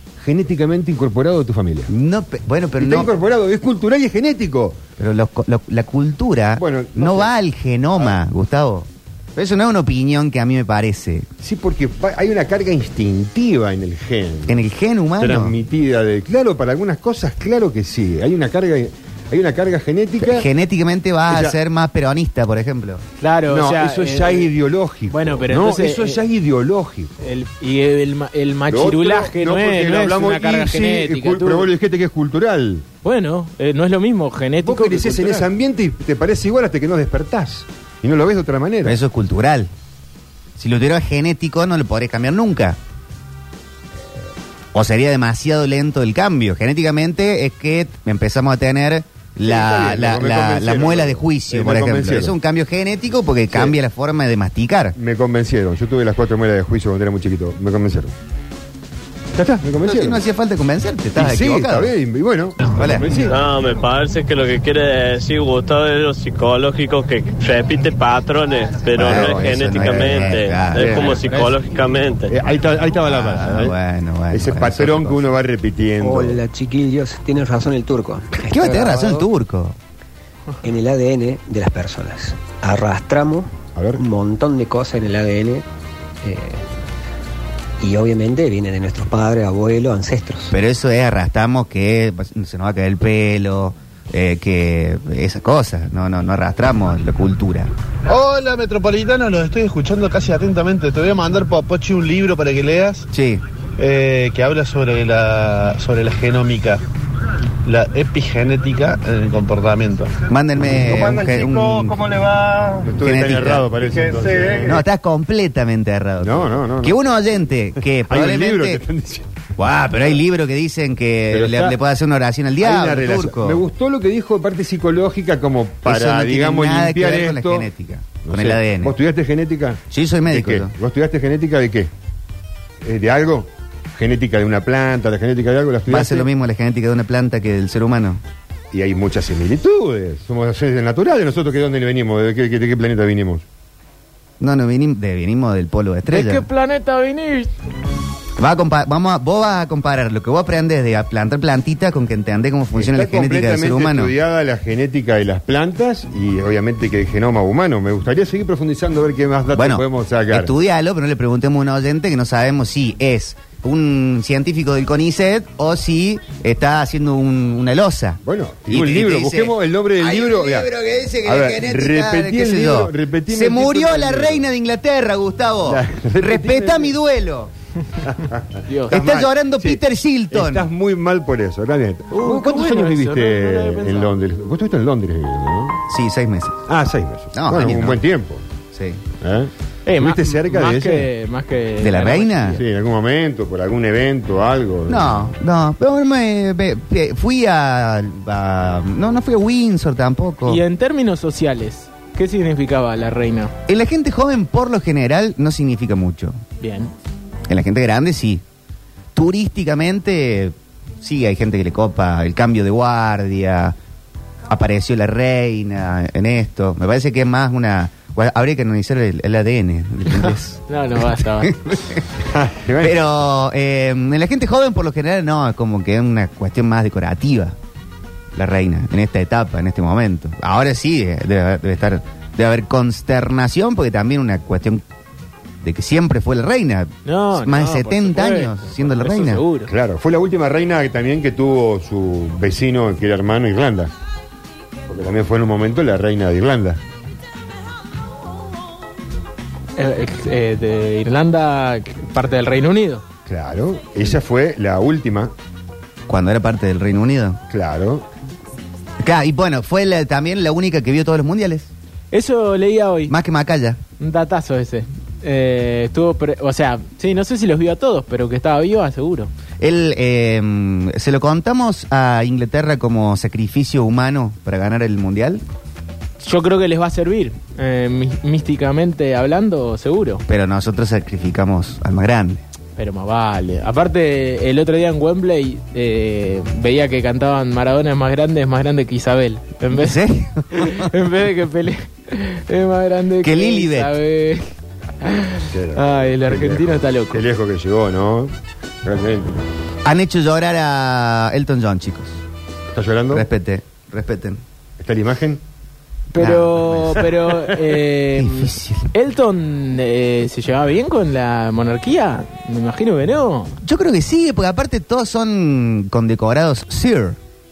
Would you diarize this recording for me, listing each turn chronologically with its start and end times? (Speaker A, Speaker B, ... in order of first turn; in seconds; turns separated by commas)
Speaker A: 0.2-1.9, Speaker B: 1.9-3.1, Speaker A: 2.8-4.8, Speaker B: 5.0-11.3, Speaker A: 6.6-7.3, Speaker A: 11.4-14.6, Speaker B: 14.5-15.6, Speaker A: 15.2-20.5, Speaker B: 20.2-23.0, Speaker A: 21.3-21.6, Speaker C: 23.2-24.5, Speaker A: 23.5-27.2, Speaker C: 25.1-26.2, Speaker C: 27.2-31.7, Speaker A: 28.7-32.9, Speaker C: 33.0-35.5, Speaker A: 34.6-39.0, Speaker B: 38.8-39.7, Speaker B: 40.6-42.8, Speaker B: 44.7-55.0, Speaker A: 49.4-52.3, Speaker A: 53.5-53.8, Speaker A: 55.0-58.1, Speaker A: 59.3-60.2, Speaker B: 59.8-61.9, Speaker A: 61.1-63.5, Speaker B: 62.6-63.2, Speaker D: 63.3-72.3, Speaker B: 68.8-71.2, Speaker A: 68.9-69.5, Speaker C: 70.9-71.6, Speaker A: 72.3-73.8, Speaker B: 73.0-75.2, Speaker A: 74.3-76.4, Speaker E: 76.0-79.3, Speaker B: 78.5-79.8, Speaker E: 80.6-85.6, Speaker A: 83.8-84.0, Speaker E: 86.2-86.7, Speaker E: 87.8-90.5, Speaker B: 90.5-97.7, Speaker F: 98.1-103.1, Speaker B: 103.1-103.4, Speaker F: 103.8-106.8, Speaker F: 107.6-110.2, Speaker B: 110.3-112.1, Speaker F: 111.0-111.5, Speaker F: 112.4-112.7, Speaker A: 112.8-114.8, Speaker B: 113.0-113.8, Speaker B: 114.6-118.8, Speaker A: 116.2-117.0, Speaker A: 118.1-119.3, Speaker B: 119.6-123.6, Speaker A: 121.3-121.8, Speaker A: 122.6-127.7, Speaker B: 125.8-128.9, Speaker A: 128.2-131.9, Speaker B: 129.9-130.7, Speaker A: 132.8-136.3, Speaker B: 135.9-138.2, Speaker A: 138.7-143.4, Speaker B: 144.4-146.5, Speaker C: 146.1-147.5, Speaker B: 148.4-154.1, Speaker A: 152.7-160.5, Speaker B: 159.5-177.5, Speaker A: 168.2-170.7, Speaker A: 171.2-174.4, Speaker A: 175.7-176.9, Speaker A: 178.0-185.8, Speaker C: 178.7-179.0, Speaker B: 178.9-180.7, Speaker C: 182.1-184.1, Speaker B: 185.9-186.6, Speaker A: 186.7-188.4, Speaker B: 187.3-188.0, Speaker B: 188.7-189.0, Speaker A: 189.2-191.1, Speaker C: 189.8-192.6, Speaker B: 191.8-192.6, Speaker A: 192.6-195.3, Speaker B: 194.9-200.6, Speaker C: 200.4-203.5, Speaker B: 203.7-206.4, Speaker C: 206.6-206.9, Speaker B: 207.5-208.4, Speaker B: 209.1-213.8, Speaker B: 214.5-222.1, Speaker C: 220.7-221.6, Speaker A: 222.2-223.0, Speaker B: 222.8-227.6, Speaker B: 228.3-234.8, Speaker B: 235.6-239.4, Speaker C: 237.0-239.7, Speaker A: 239.7-243.9, Speaker A: 244.9-246.8, Speaker C: 249.8-253.0, Speaker A: 253.3-255.3, Speaker B: 256.1-257.4, Speaker A: 257.5-258.1, Speaker B: 259.0-261.7, Speaker C: 262.1-263.1, Speaker B: 263.1-263.8, Speaker C: 264.0-269.3, Speaker B: 269.6-275.4, Speaker C: 276.2-280.2, Speaker B: 280.3-282.4, Speaker C: 282.8-297.2, Speaker B: 289.7-290.9, Speaker B: 293.2-293.9, Speaker A: 295.5-298.3, Speaker A: 298.8-299.5, Speaker B: 299.8-302.2, Speaker A: 302.7-303.3, Speaker B: 303.1-304.4, Speaker A: 304.8-305.4, Speaker C: 306.1-313.6, Speaker B: 306.1-307.1, Speaker B: 308.1-308.9, Speaker B: 313.6-317.2